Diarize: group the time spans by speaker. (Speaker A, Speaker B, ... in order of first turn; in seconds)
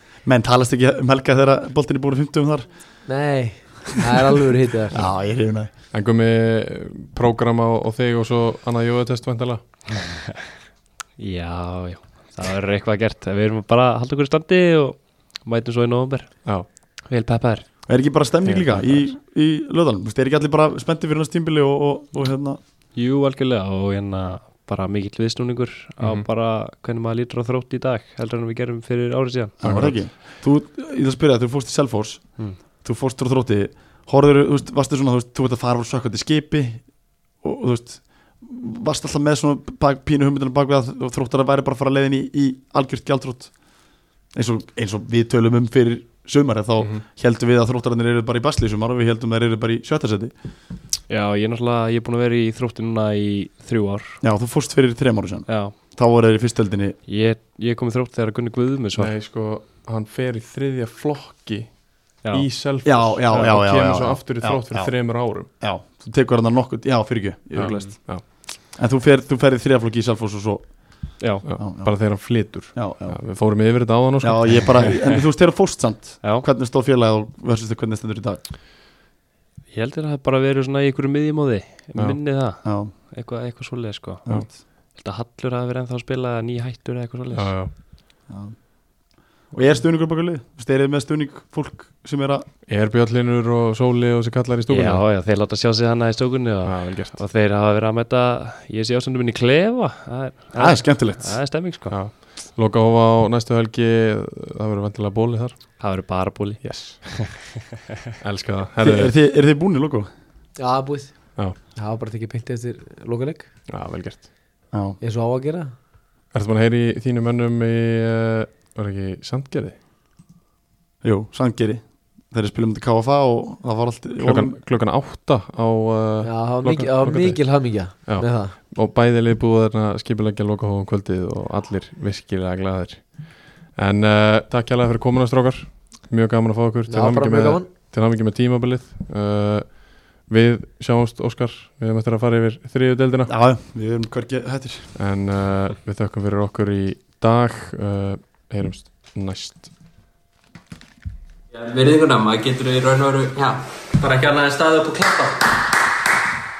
Speaker A: 0.2-2.7, 4.9-5.7, 17.9-22.6, 29.6-43.6, 44.3-50.3, 54.2-57.0, 62.8-73.3, 74.2-78.4, 82.6-82.9, 88.3-88.6, 89.5-92.5, 100.5-101.4, 108.8-110.1, 114.7-115.0, 121.0-124.6, 143.3-145.0
Speaker B: 3.1-5.1, 110.6-113.5, 115.0-115.7, 126.2-128.6, 136.9-137.7
Speaker C: 5.9-9.6, 26.0-26.2, 29.6-29.9, 59.0-65.5, 67.6-68.2, 71.5-74.9, 87.3-87.7, 92.7-95.0, 96.7-97.2, 101.9-105.8, 106.6-107.3, 108.2-109.1, 113.7-114.3, 116.3-119.8, 124.2-143.3, 145.0-149.7
Speaker D: 11.2-17.9, 18.4-19.1, 22.9-29.9, 51.1-54.2, 55.5-55.8, 57.1-59.1, 67.6-67.9, 71.2-71.5, 79.7-87.6, 94.7-102.0, 105.8-107.4
Speaker E: 151.5-155.7